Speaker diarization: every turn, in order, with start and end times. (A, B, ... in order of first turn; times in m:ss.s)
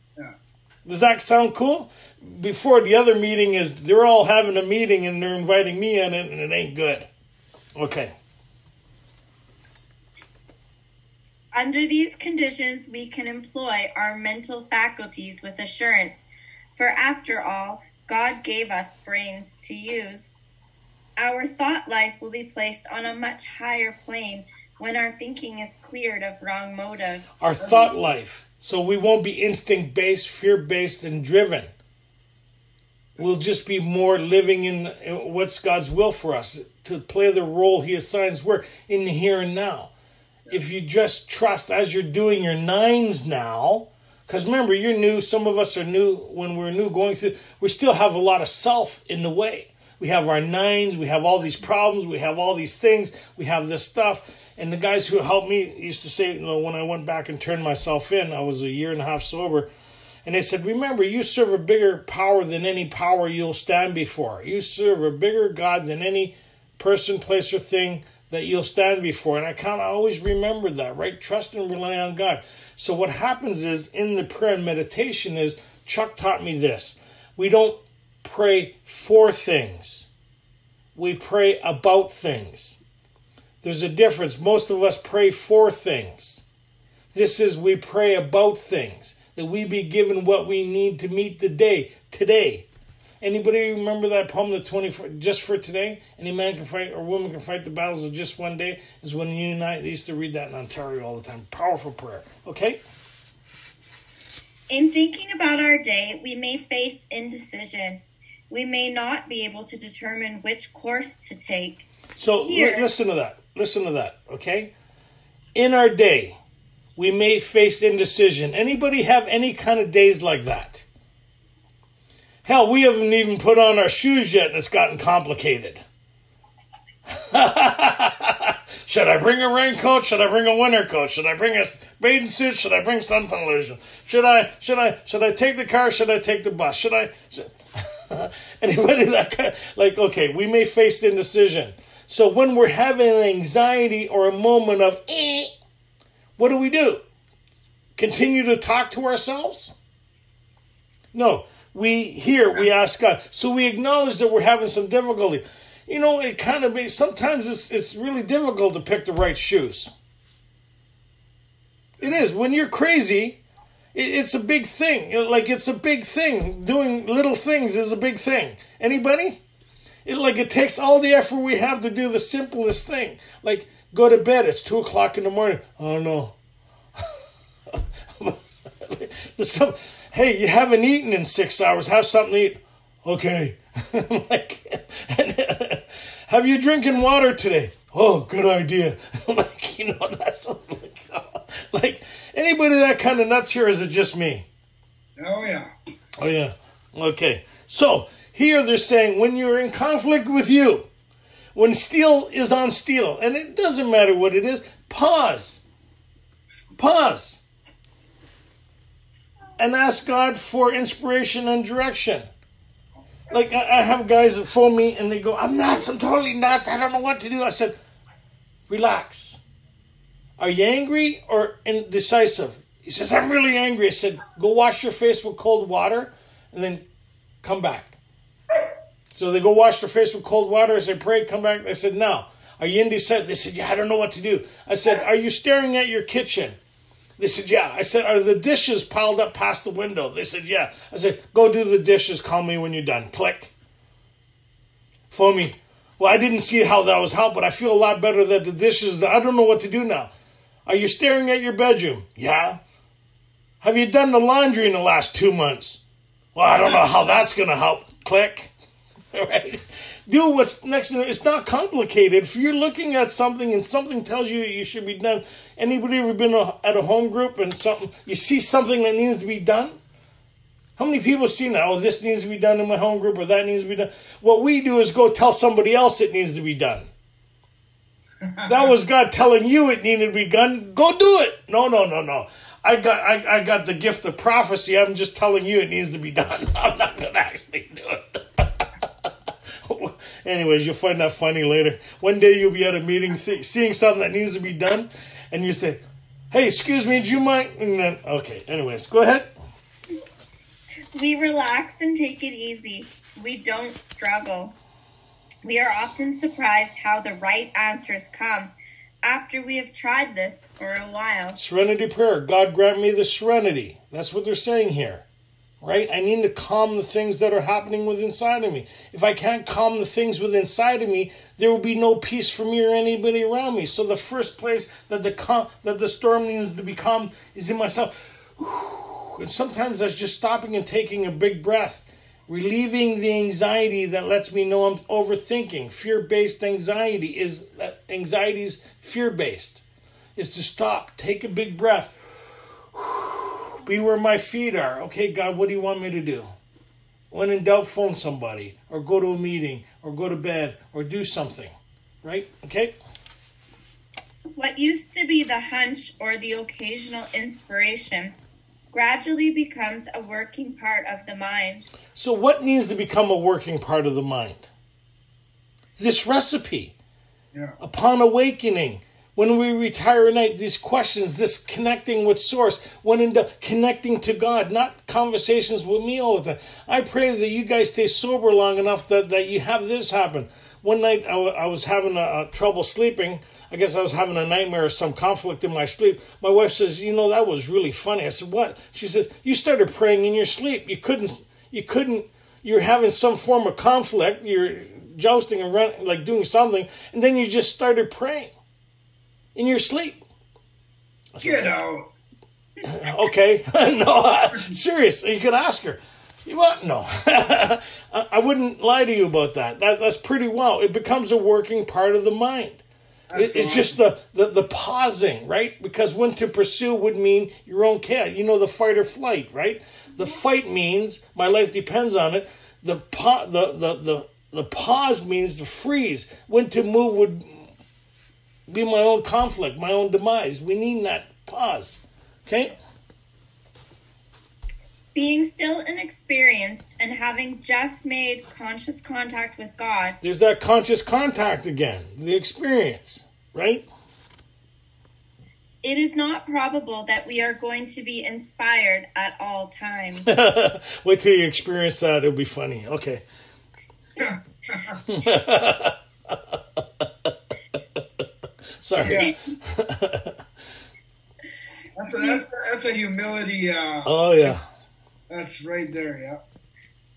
0:00.8-0:07.1 A
0:07.7-0:08.1 A
0:11.5-0:16.2 B
0:16.8-0:20.4 B
0:21.2-0:27.3 B
0:27.4-0:31.7 A
0:27.6-0:28.0 C
0:33.2-0:39.9 A
0:40.5-0:59.7 A
1:00.2-1:20.1 A
1:20.9-1:22.8 A
1:23.6-1:26.4 A
1:27.1-1:32.7 A
1:33.2-1:42.8 A
1:44.7-1:51.9 B
1:52.2-1:54.7 A
1:52.4-1:52.9 B
1:55.5-1:56.4 A
1:57.0-2:00.8 A
2:02.4-2:05.8 A
2:07.1-2:25.5 A
2:26.4-2:27.0 A
2:28.0-2:29.7 A
2:31.1-2:39.9 A
2:42.0-2:43.4 A
2:43.9-2:49.4 A
2:50.0-2:56.4 A
2:57.0-3:14.5 A
3:15.2-3:15.7 C
3:16.2-3:20.9 A
3:21.5-3:25.6 A
3:26.8-3:27.4 A
3:29.6-3:32.2 A
3:33.3-3:37.7 A
3:38.7-3:39.4 A
3:40.4-3:46.8 A
3:47.4-3:48.0 A
3:49.1-3:56.6 A
3:57.2-4:03.5 A
4:05.1-4:10.1 A
4:10.6-4:12.6 A
4:13.6-4:15.8 A
4:16.3-4:18.5 A
4:19.1-4:29.8 A
4:30.8-4:36.9 A
4:38.2-4:38.5 C
4:38.4-4:49.1 A
4:49.6-4:59.3 A
5:00.9-5:04.5 B
5:05.4-5:11.4 B
5:11.4-5:15.0 A
5:15.6-5:39.6 A
5:40.2-5:41.9 A
5:42.7-5:46.3 A
5:47.1-5:52.7 A
5:54.3-5:58.2 B
5:58.7-6:01.7 B
6:01.9-6:04.5 A
6:05.8-6:06.7 A
6:07.6-6:38.3 A
6:39.3-6:40.0 A
6:41.1-6:41.5 A
6:41.2-6:41.9 C
6:42.6-6:52.6 A
6:53.1-6:53.8 C
6:53.1-7:07.4 A
7:08.5-7:12.6 A
7:14.9-7:20.0 B
7:20.0-7:23.6 A
7:25.6-7:30.1 B
7:30.0-7:33.0 A
7:34.0-7:34.8 C
7:34.9-7:37.1 A
7:38.6-7:40.2 A
7:38.8-7:39.1 C
7:41.8-7:44.3 C
7:43.8-7:44.4 A
7:45.1-7:46.2 C